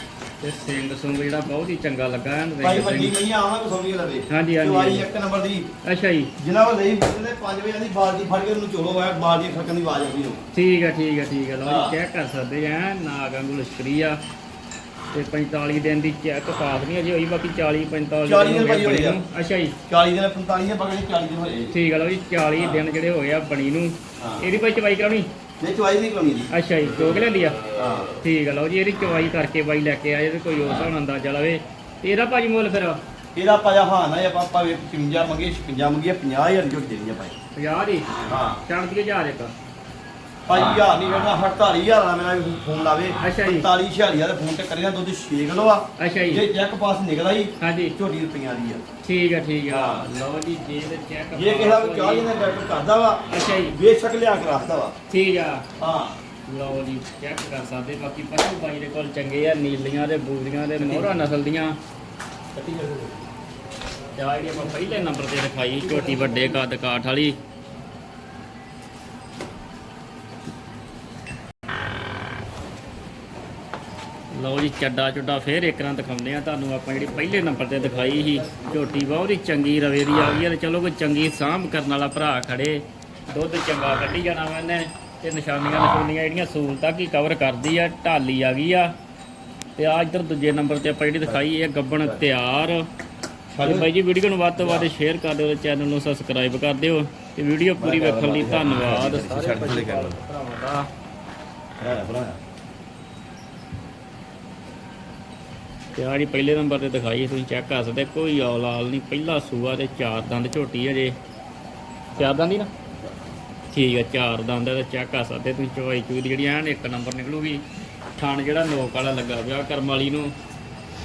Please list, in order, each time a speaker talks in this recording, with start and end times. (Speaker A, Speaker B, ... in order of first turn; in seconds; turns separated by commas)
Speaker A: 0.4-3.2, Speaker B: 2.6-5.7, Speaker A: 4.3-5.1, Speaker A: 5.8-6.3, Speaker B: 6.4-10.4, Speaker A: 10.5-14.2, Speaker B: 11.6-11.9, Speaker A: 15.1-19.7, Speaker B: 18.2-19.2, Speaker B: 19.9-21.8, Speaker A: 21.7-25.3, Speaker B: 22.6-22.8, Speaker B: 24.2-24.5, Speaker B: 25.6-27.2, Speaker A: 26.5-27.6, Speaker B: 27.8-28.1, Speaker A: 28.2-33.0, Speaker B: 33.3-37.3, Speaker A: 37.5-38.1, Speaker B: 38.2-38.6, Speaker A: 38.6-39.5, Speaker B: 40.5-48.8, Speaker A: 43.2-43.7, Speaker A: 46.0-46.4, Speaker A: 47.6-47.9, Speaker A: 49.0-52.3, Speaker B: 49.7-50.1, Speaker B: 51.3-55.0, Speaker A: 53.3-53.8, Speaker A: 55.1-55.6, Speaker B: 55.8-56.2, Speaker A: 56.5-61.8, Speaker B: 60.8-61.2, Speaker B: 62.5-63.1, Speaker A: 64.2-67.3, Speaker B: 65.8-66.6, Speaker A: 74.3-88.9, Speaker B: 77.0-79.1, Speaker A: 89.8-92.8, Speaker B: 93.5-93.9, Speaker A: 93.6-100.9, Speaker B: 94.5-94.9, Speaker B: 97.8-100.2, Speaker B: 101.8-102.4, Speaker A: 106.0-111.1, Speaker A: 112.2-112.7, Speaker A: 113.7-117.6, Speaker A: 118.2-120.3